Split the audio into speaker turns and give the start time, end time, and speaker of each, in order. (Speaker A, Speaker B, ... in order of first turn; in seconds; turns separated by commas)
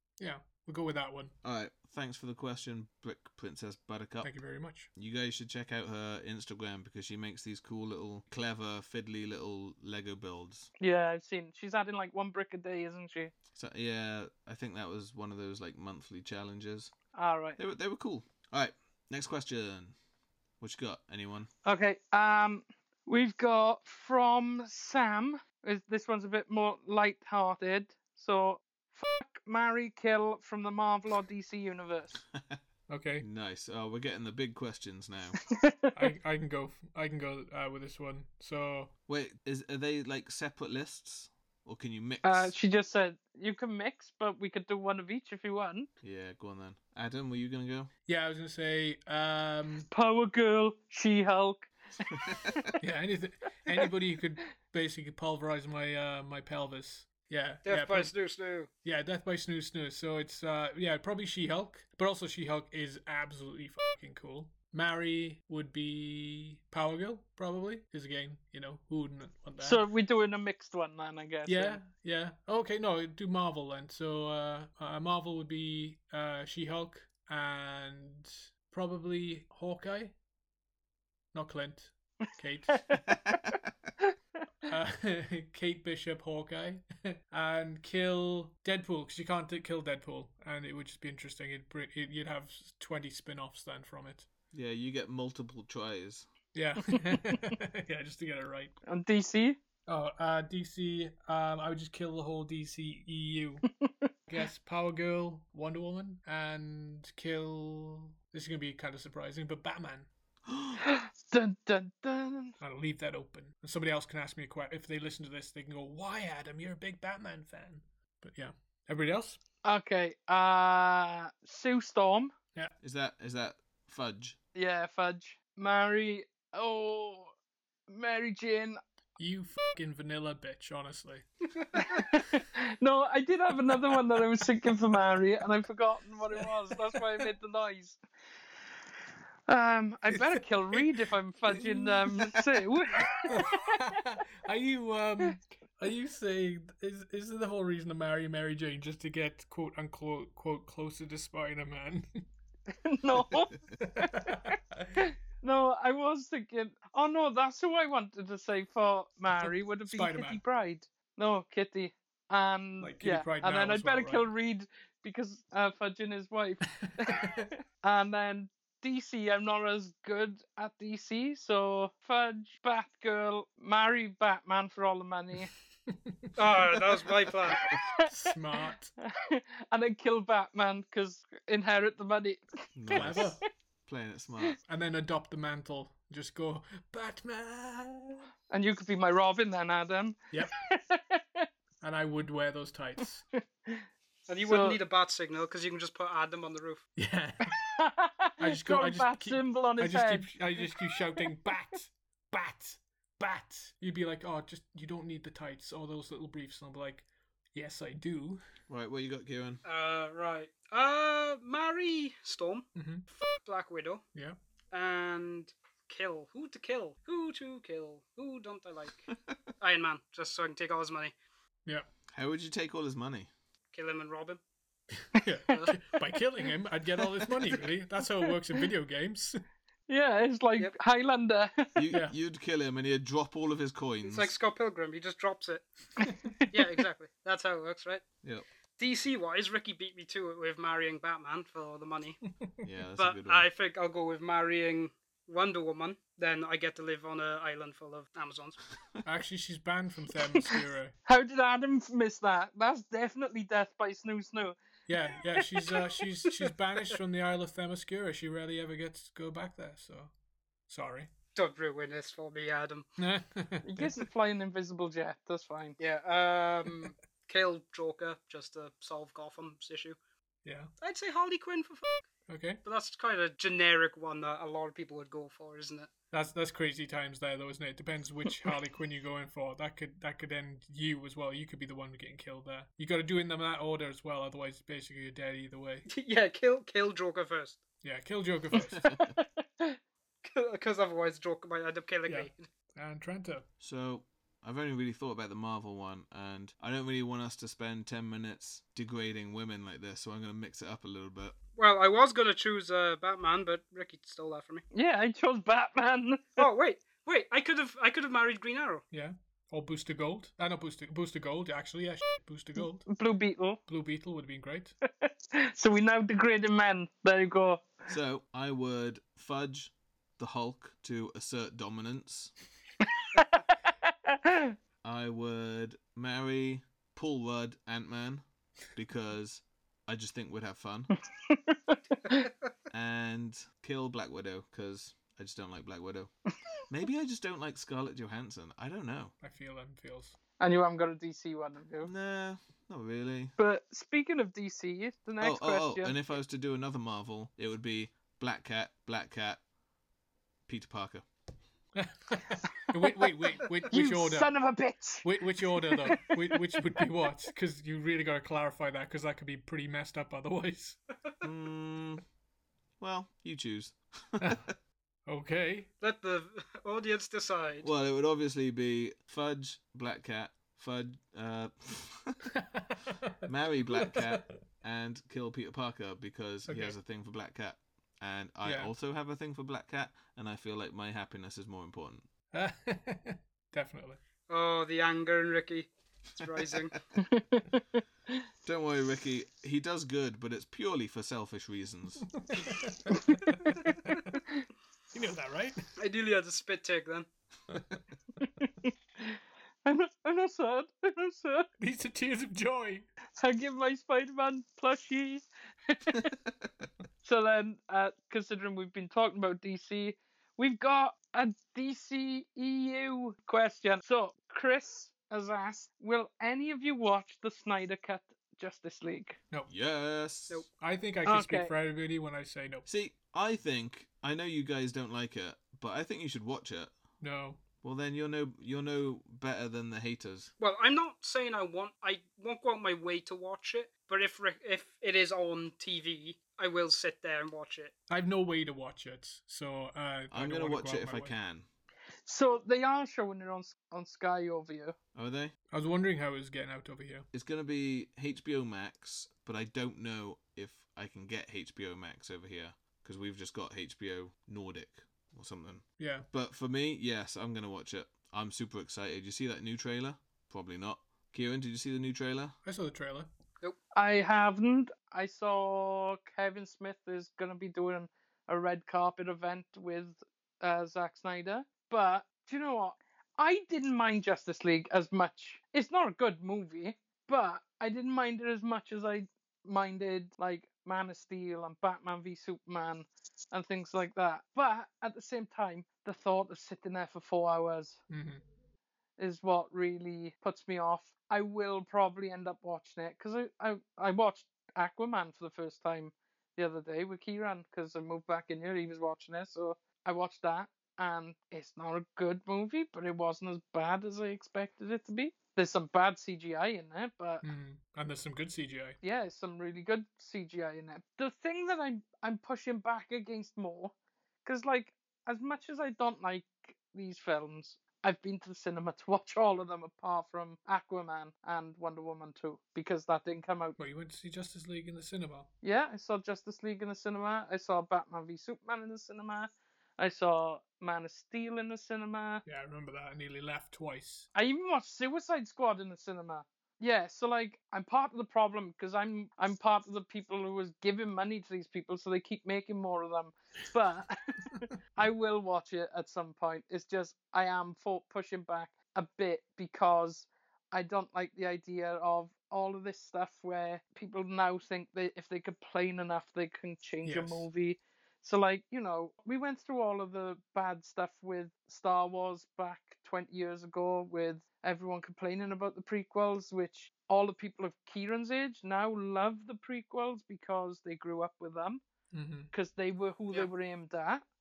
Speaker A: 0.2-1.3, Speaker B: 1.4-4.3, Speaker A: 4.2-4.9, Speaker B: 4.9-10.7, Speaker C: 10.8-13.3, Speaker B: 13.5-16.9, Speaker C: 17.1-17.6, Speaker B: 17.6-19.9, Speaker B: 20.6-21.5, Speaker C: 21.6-32.2, Speaker A: 32.9-33.2, Speaker B: 33.2-35.4, Speaker C: 35.5-35.9, Speaker A: 35.9-38.9, Speaker B: 39.1-42.5, Speaker C: 42.2-45.9, Speaker B: 46.0-47.9, Speaker A: 48.1-49.9, Speaker C: 49.9-52.6, Speaker B: 52.2-52.5, Speaker A: 52.8-58.1, Speaker D: 57.6-58.7, Speaker A: 58.8-69.8, Speaker C: 69.6-71.8, Speaker A: 71.5-80.1, Speaker A: 81.3-83.0, Speaker C: 82.7-83.4, Speaker A: 84.7-94.3, Speaker B: 94.5-96.3, Speaker A: 96.5-98.8, Speaker C: 98.8-99.6, Speaker A: 99.8-103.7, Speaker C: 103.8-104.1, Speaker A: 104.3-110.1, Speaker B: 110.5-110.8, Speaker C: 110.8-112.5, Speaker A: 112.6-119.4, Speaker C: 119.6-122.3, Speaker B: 122.8-124.4, Speaker C: 124.5-127.3, Speaker C: 127.9-128.8, Speaker A: 129.2-131.2, Speaker C: 131.7-138.0, Speaker A: 136.4-137.0, Speaker C: 139.5-143.8, Speaker A: 140.1-140.9, Speaker A: 141.5-142.4, Speaker A: 143.3-152.2, Speaker C: 152.7-175.5, Speaker A: 153.8-155.0, Speaker A: 159.4-160.4, Speaker A: 162.8-164.3, Speaker A: 166.8-167.4, Speaker A: 175.9-176.3, Speaker D: 176.3-177.6, Speaker C: 177.5-178.1, Speaker A: 177.5-178.9, Speaker C: 179.0-183.4, Speaker B: 182.8-184.6, Speaker A: 182.9-183.4, Speaker A: 184.6-188.2, Speaker C: 188.5-191.5, Speaker A: 191.8-193.2, Speaker D: 194.3-196.8, Speaker C: 194.4-194.8, Speaker A: 196.9-197.6, Speaker C: 197.5-201.2, Speaker A: 198.4-208.4, Speaker B: 208.7-209.6, Speaker D: 209.6-214.0, Speaker A: 212.7-213.1, Speaker D: 214.7-219.1, Speaker D: 219.6-221.1, Speaker B: 222.1-223.3, Speaker D: 223.7-224.4, Speaker A: 225.0-229.4, Speaker D: 225.5-225.8, Speaker C: 228.2-228.6, Speaker C: 229.9-231.8, Speaker B: 231.7-234.3, Speaker D: 234.0-238.0, Speaker D: 238.8-242.2, Speaker B: 242.6-243.4, Speaker D: 243.0-248.6, Speaker A: 249.0-250.9, Speaker C: 251.1-254.6, Speaker A: 254.9-260.1, Speaker C: 255.3-255.9, Speaker A: 260.7-261.1, Speaker D: 261.3-262.9, Speaker A: 263.0-264.1, Speaker C: 263.6-265.8, Speaker D: 265.8-269.9, Speaker A: 270.4-270.7, Speaker D: 270.8-272.0, Speaker A: 272.3-272.6, Speaker D: 272.6-275.9, Speaker A: 276.1-285.9, Speaker D: 285.9-287.6, Speaker A: 287.8-289.0, Speaker C: 288.6-289.8, Speaker B: 288.7-289.0, Speaker D: 290.2-292.4, Speaker A: 292.1-293.5, Speaker B: 293.6-301.4, Speaker D: 301.6-304.6, Speaker C: 304.7-306.4, Speaker D: 306.4-308.8, Speaker A: 308.9-312.9, Speaker C: 312.9-313.6, Speaker A: 313.7-314.8, Speaker C: 315.0-317.6, Speaker B: 317.9-322.3, Speaker C: 324.1-324.5, Speaker B: 324.8-330.9, Speaker C: 331.3-332.3, Speaker B: 332.7-336.1, Speaker B: 336.7-339.1, Speaker A: 339.2-340.2, Speaker C: 340.4-341.9, Speaker B: 341.8-343.3, Speaker C: 343.4-345.9, Speaker B: 345.2-349.4, Speaker B: 350.5-351.0, Speaker A: 351.8-354.3, Speaker C: 353.7-356.6, Speaker A: 355.0-360.8, Speaker B: 361.2-362.0, Speaker B: 362.8-364.5, Speaker A: 364.2-364.4, Speaker A: 365.1-365.7, Speaker D: 365.8-367.7, Speaker B: 367.6-372.2, Speaker A: 372.4-373.2, Speaker B: 373.2-382.1, Speaker A: 373.8-374.2, Speaker A: 376.4-376.8, Speaker A: 378.4-378.7, Speaker A: 382.3-384.0, Speaker D: 384.3-386.8, Speaker C: 387.0-387.6, Speaker B: 388.4-392.1, Speaker A: 392.2-394.2, Speaker A: 394.9-395.6, Speaker D: 395.8-397.1, Speaker A: 397.5-397.8, Speaker C: 398.4-401.5, Speaker A: 401.6-402.9, Speaker C: 403.2-406.1, Speaker C: 407.0-419.2, Speaker B: 419.5-420.4, Speaker A: 420.6-422.6, Speaker C: 421.0-421.5, Speaker B: 422.6-426.7, Speaker A: 427.0-427.4, Speaker B: 427.6-430.3, Speaker D: 430.4-437.7, Speaker A: 437.9-441.1, Speaker B: 440.1-441.4, Speaker C: 442.1-444.7, Speaker B: 444.9-445.3, Speaker A: 445.5-447.1, Speaker B: 447.1-462.4, Speaker A: 455.8-456.1, Speaker A: 462.4-463.1, Speaker C: 463.7-487.8, Speaker A: 487.9-488.2, Speaker C: 489.0-507.2, Speaker A: 507.2-508.8, Speaker C: 508.8-513.7, Speaker C: 514.2-523.6, Speaker A: 523.6-525.3, Speaker C: 525.4-532.2, Speaker A: 532.2-534.1, Speaker C: 534.1-571.6, Speaker A: 556.8-557.3, Speaker A: 571.9-572.3, Speaker C: 572.3-574.0